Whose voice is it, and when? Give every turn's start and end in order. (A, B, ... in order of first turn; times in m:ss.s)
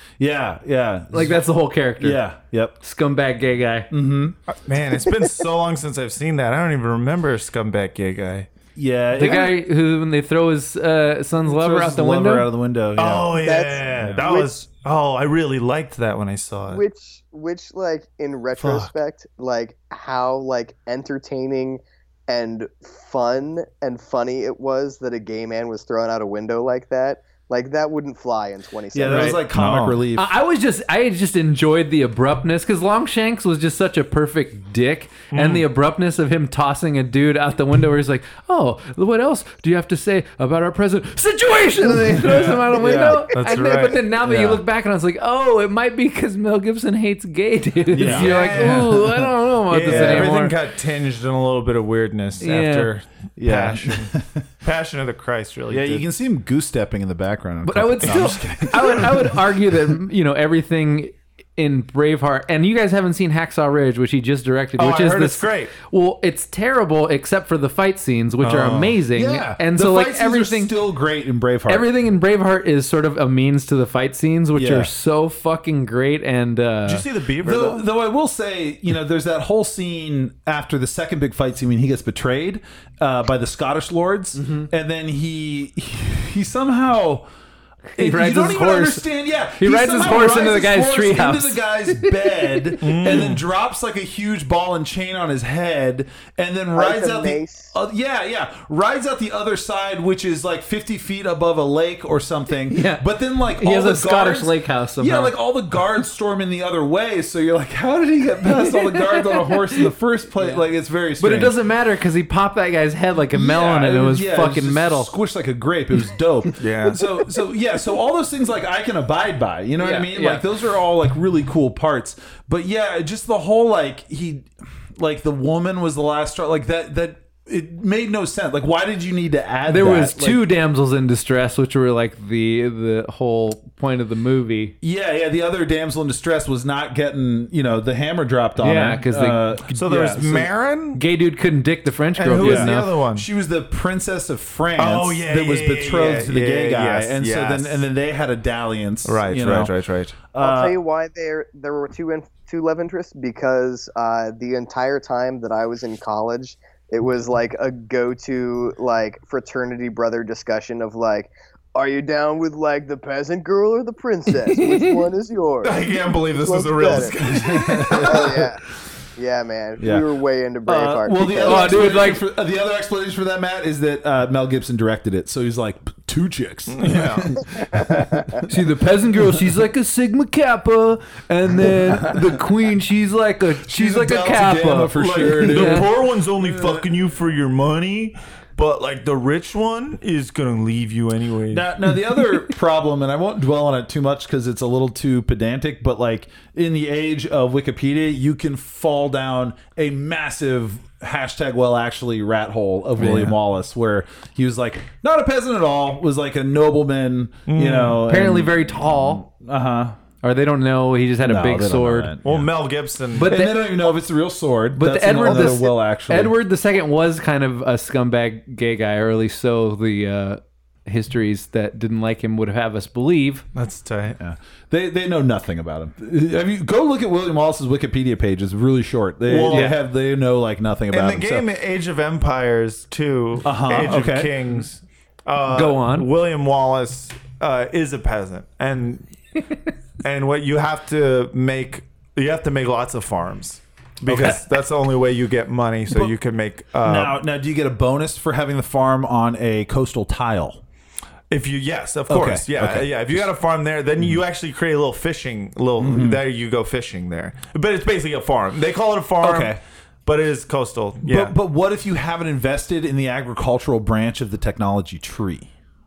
0:00.2-0:01.4 A
0:01.1-0:02.2 B
0:02.0-0:02.8 A
0:02.8-0:03.9 B
0:03.9-0:04.4 A
0:04.5-0:08.5 C
0:08.8-0:09.6 A
0:09.2-0:12.5 B
0:11.4-0:14.2 A
0:13.0-0:16.8 C
0:13.4-0:14.5 D
0:16.7-0:29.4 D
0:18.6-0:18.9 C
0:28.9-0:30.3 A
0:29.1-0:29.4 B
0:29.5-0:30.0 C
0:30.1-0:50.5 B
0:35.3-0:35.6 C
0:42.0-0:43.5 A
0:42.2-0:42.6 C
0:43.3-0:44.0 C
0:44.2-0:44.6 A
0:47.9-0:49.3 A
0:48.0-0:49.0 C
0:49.7-0:56.0 C
0:49.8-0:50.4 A
0:52.4-0:52.9 B
0:53.4-0:54.4 A
0:55.7-0:59.5 A
0:57.6-1:10.7 B
1:04.8-1:05.7 C
1:08.4-1:09.0 C
1:09.1-1:11.9 A
1:11.7-1:17.0 B
1:14.5-1:14.9 A
1:16.8-1:17.8 C
1:17.4-1:27.3 A
1:24.4-1:24.7 B
1:27.9-1:29.0 B
1:28.0-1:51.6 A
1:29.6-1:32.7 B
1:32.8-1:33.4 C
1:36.8-1:37.7 D
1:42.7-1:45.3 B
1:48.6-1:49.5 B
1:50.4-1:50.6 B
1:51.2-1:55.1 B
1:53.3-2:10.4 A
1:56.6-1:57.1 C
1:59.8-2:00.4 B
2:09.7-2:14.7 B
2:14.8-2:20.5 A
2:18.6-2:19.4 B
2:19.7-2:21.0 C
2:20.9-2:22.9 B
2:22.2-2:23.2 C
2:22.4-2:29.7 A
2:24.8-2:27.8 C
2:29.0-2:30.1 C
2:30.3-2:30.8 A
2:30.4-2:47.2 D
2:45.6-2:48.5 C
2:47.2-2:48.5 A
2:47.7-2:48.6 D
2:49.2-2:51.9 D
2:49.8-2:50.0 A
2:50.6-2:58.5 A
2:51.4-2:52.2 B
2:56.7-2:57.4 C
2:57.8-2:58.2 D
2:58.4-3:05.8 B
3:03.6-3:06.8 A
3:04.9-3:11.7 C
3:11.5-3:30.0 A
3:27.4-3:28.0 C
3:28.0-3:29.2 B
3:30.2-3:32.1 B
3:31.2-3:32.5 A
3:32.2-3:33.3 C
3:33.2-3:36.3 A
3:33.2-3:33.7 B
3:34.7-3:43.4 B
3:43.5-3:44.2 C
3:44.2-3:51.4 A
3:49.3-3:49.8 C
3:49.5-3:49.8 B
3:50.9-3:59.0 C
3:53.4-3:54.5 A
3:55.5-3:56.1 B
4:00.0-4:07.2 C
4:04.1-4:04.4 A
4:06.8-4:10.6 A
4:11.3-4:21.3 C
4:12.1-4:13.3 A
4:15.8-4:16.2 A
4:19.2-4:19.6 A
4:21.0-4:25.5 A